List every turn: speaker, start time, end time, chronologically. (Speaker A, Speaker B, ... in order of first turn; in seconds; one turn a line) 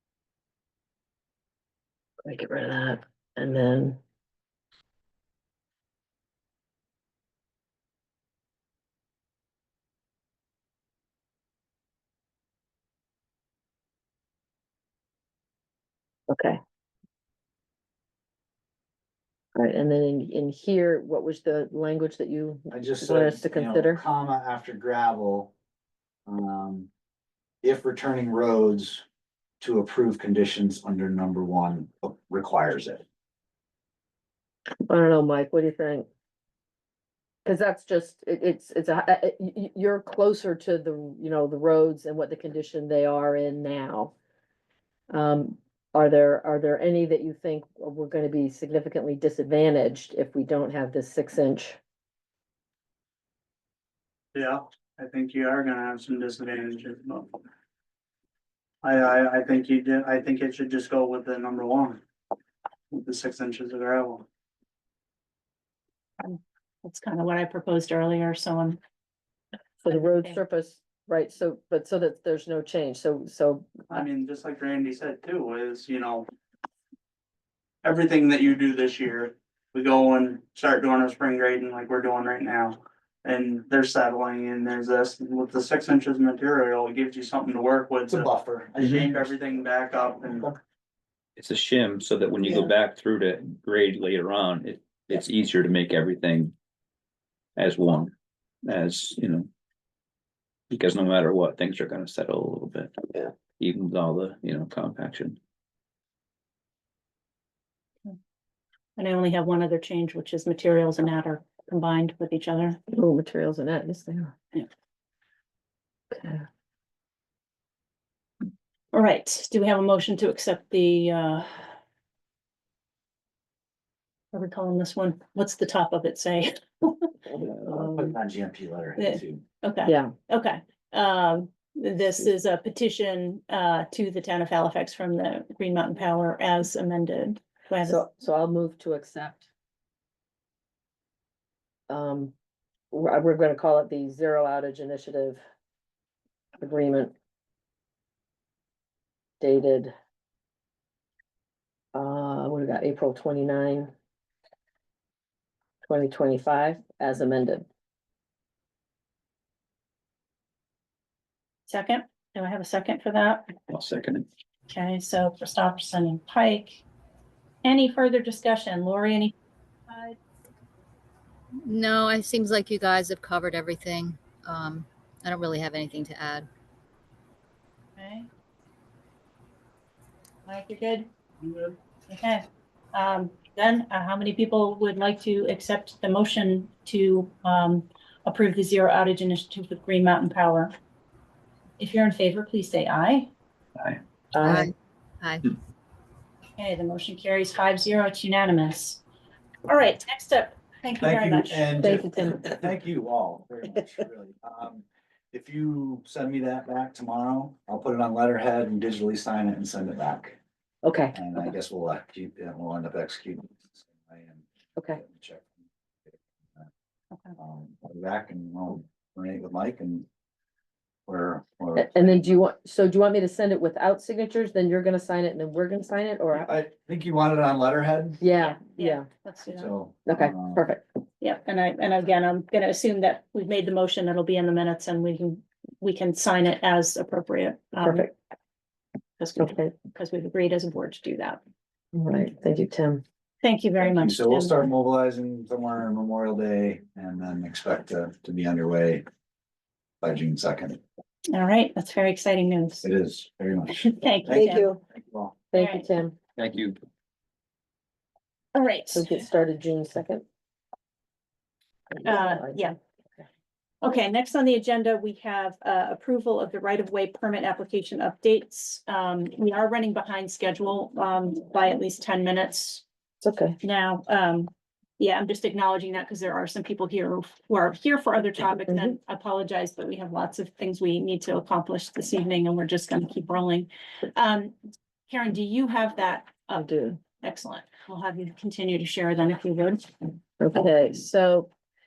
Speaker A: 2.2-4.0
Speaker A: 16.3-16.6
Speaker A: 19.6-24.0
Speaker B: 22.7-25.5
Speaker B: 26.2-26.9
Speaker B: 27.6-29.0
Speaker B: 29.6-33.0
Speaker A: 34.8-36.0
Speaker A: 37.4-44.1
Speaker A: 45.1-51.8
Speaker C: 54.3-57.3
Speaker C: 58.8-62.0
Speaker C: 62.9-64.2
Speaker D: 66.2-68.8
Speaker A: 69.8-74.0
Speaker D: 69.8-70.4
Speaker C: 73.9-76.3
Speaker C: 77.8-90.5
Speaker B: 88.1-89.3
Speaker E: 91.4-96.5
Speaker E: 97.6-99.5
Speaker E: 100.7-105.4
Speaker D: 109.0-112.8
Speaker A: 112.9-114.3
Speaker A: 116.1-116.4
Speaker D: 118.9-121.7
Speaker D: 124.3-127.2
Speaker E: 127.4-127.7
Speaker B: 127.7-129.4
Speaker D: 129.0-138.0
Speaker A: 129.8-130.1
Speaker A: 137.8-139.5
Speaker A: 141.9-142.3
Speaker A: 142.9-145.4
Speaker A: 146.6-147.1
Speaker A: 149.4-149.9
Speaker A: 151.9-153.9
Speaker A: 155.8-157.7
Speaker D: 161.7-163.5
Speaker E: 163.7-164.3
Speaker D: 164.7-166.8
Speaker D: 167.6-169.3
Speaker D: 169.9-170.2
Speaker F: 171.6-176.5
Speaker D: 177.9-178.3
Speaker D: 180.4-181.1
Speaker D: 182.1-190.7
Speaker D: 191.8-193.3
Speaker A: 194.3-194.7
Speaker F: 194.4-195.4
Speaker D: 196.6-199.0
Speaker D: 199.7-201.9
Speaker B: 201.0-210.4
Speaker A: 201.8-202.5
Speaker A: 210.8-211.2
Speaker B: 211.1-216.7
Speaker B: 217.4-220.1
Speaker B: 221.1-222.4
Speaker A: 221.8-226.5
Speaker B: 226.3-228.2
Speaker A: 228.2-229.1
Speaker D: 228.4-229.7
Speaker B: 229.5-230.6
Speaker A: 230.1-230.8
Speaker D: 231.2-238.1
Speaker A: 237.8-238.1
Speaker D: 239.2-241.4
Speaker A: 239.4-239.7
Speaker A: 241.9-243.0
Speaker D: 243.4-244.7
Speaker B: 243.8-249.0
Speaker B: 250.0-250.8
Speaker D: 251.3-252.8
Speaker B: 252.8-255.3
Speaker D: 253.7-254.7
Speaker A: 255.5-256.1
Speaker D: 255.5-255.9
Speaker E: 256.4-256.8
Speaker D: 258.5-259.1
Speaker A: 258.9-260.2
Speaker A: 261.9-262.7
Speaker D: 262.0-262.7
Speaker D: 263.8-272.8
Speaker A: 273.2-273.6
Speaker D: 273.6-284.5
Speaker A: 278.7-278.9
Speaker D: 285.1-289.9
Speaker A: 286.6-287.0
Speaker A: 290.4-291.5